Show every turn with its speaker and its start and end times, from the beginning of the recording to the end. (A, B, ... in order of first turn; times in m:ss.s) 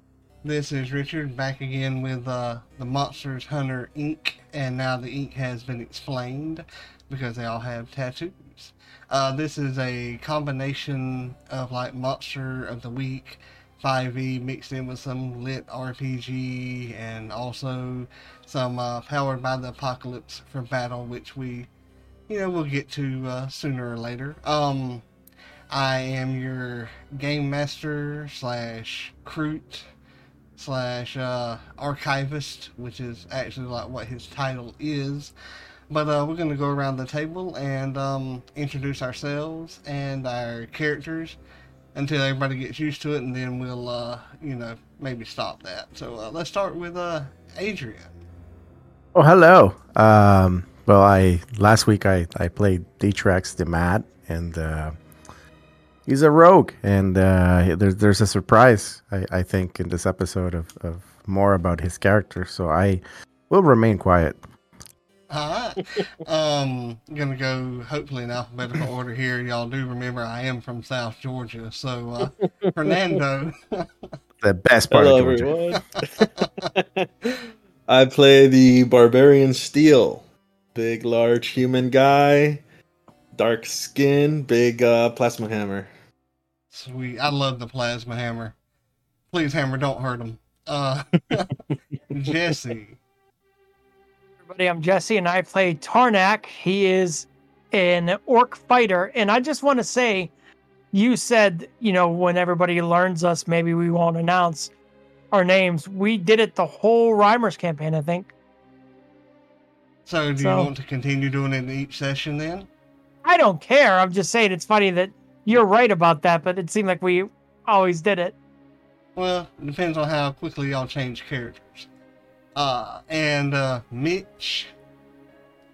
0:00.4-0:21.7 A
0:22.3-0:25.0 A
0:25.7-0:29.9 A
0:30.6-0:35.3 A
0:35.9-0:41.4 A
0:41.9-0:48.1 A
0:49.1-0:55.0 B
0:56.1-1:04.4 B
1:05.3-1:13.9 A
1:14.4-1:15.5 B
1:14.9-1:20.2 C
1:16.0-1:16.7 A
1:20.7-1:22.6 C
1:23.3-1:25.9 C
1:26.7-1:28.5 A
1:29.3-1:31.5 A
1:32.1-1:33.0 A
1:34.4-1:40.3 D
1:40.9-1:44.7 D
1:45.3-1:48.3 D
1:50.0-1:52.7 A
1:50.4-1:50.7 D
1:53.2-1:58.3 D
1:59.2-2:01.9 A
2:02.5-2:04.7 A